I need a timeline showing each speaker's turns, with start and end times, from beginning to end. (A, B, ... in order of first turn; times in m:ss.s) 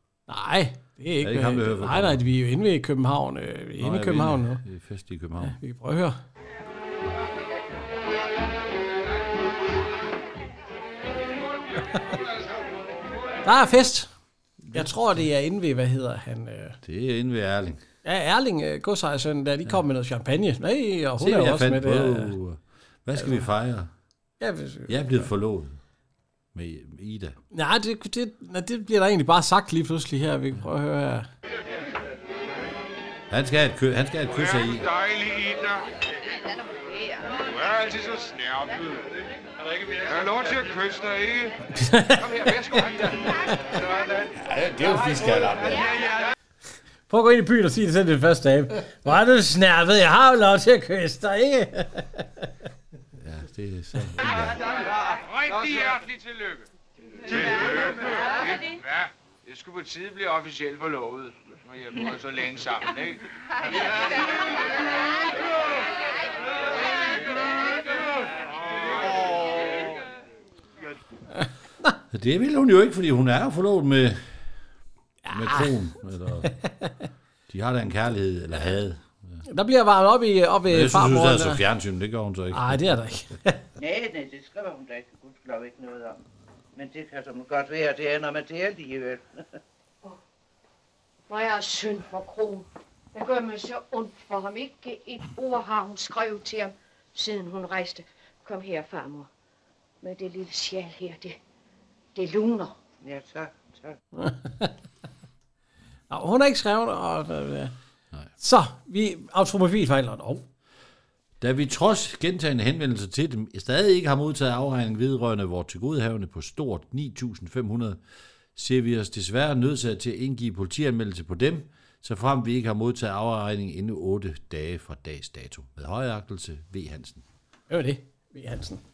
0:00.3-0:04.6 A
0:01.2-0:02.2 B
0:03.8-0:05.6 B
0:05.4-0:06.2 A
0:13.4-0:14.1 A
0:14.6-0:15.2 B
0:14.7-0:16.8 A
0:16.8-0:17.8 B
0:18.0-0:22.4 A
0:21.2-0:23.9 B
0:24.4-0:25.3 A
0:24.9-0:25.8 B
0:26.5-0:27.4 B
0:27.5-0:31.3 A
0:33.3-0:34.9 B
0:34.4-0:35.8 C
0:37.4-0:38.8 C
0:39.9-0:41.5 C
0:41.7-0:43.8 A
0:44.3-0:45.9 B
0:47.1-0:52.4 A
0:53.2-0:54.6 B
0:55.2-0:56.6 C
0:57.2-1:03.2 C
1:12.1-1:14.4 B
1:15.2-1:15.7 A
1:15.3-1:16.5 B
1:16.4-1:16.9 A
1:17.5-1:19.4 B
1:19.5-1:21.6 A
1:20.7-1:23.0 B
1:22.5-1:23.6 A
1:23.8-1:26.2 D
1:26.7-1:29.5 D
1:31.3-1:39.3 E
1:40.0-1:41.4 E
1:42.1-1:42.8 E
1:43.0-1:44.0 D
1:44.2-1:44.7 A
1:46.1-1:47.7 A
1:48.4-1:50.4 A
1:51.4-1:58.0 B
1:58.5-2:07.2 B
2:07.7-2:08.8 A